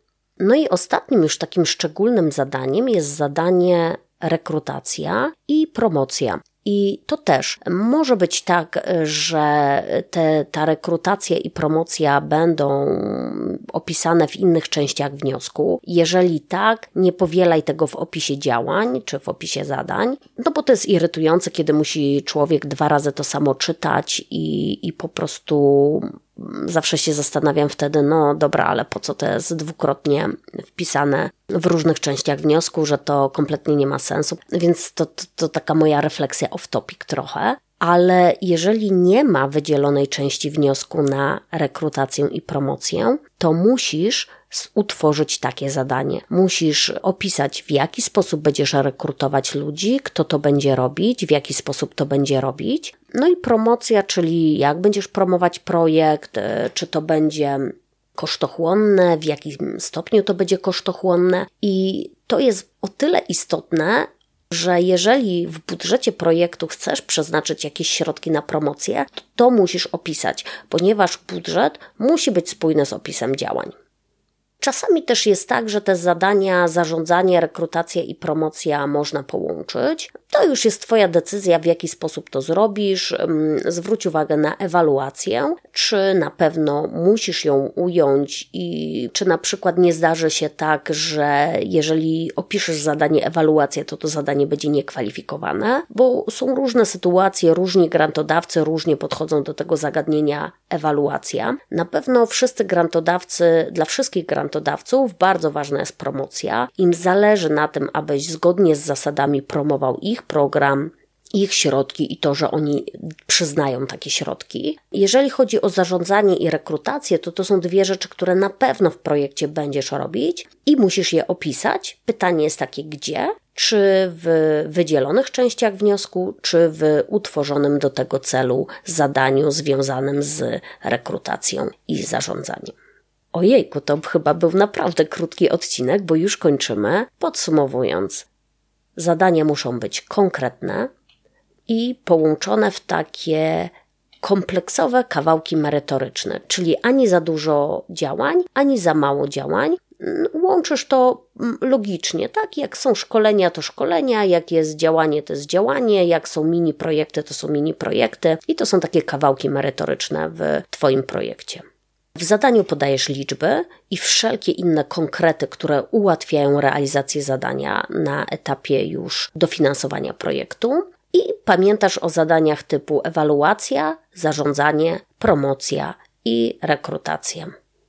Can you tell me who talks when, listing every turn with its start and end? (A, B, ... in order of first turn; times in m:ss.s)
0:00.4-1:13.8 A
1:14.6-2:12.8 A
2:13.3-2:18.3 A
2:19.0-2:20.9 A
2:21.7-2:57.5 A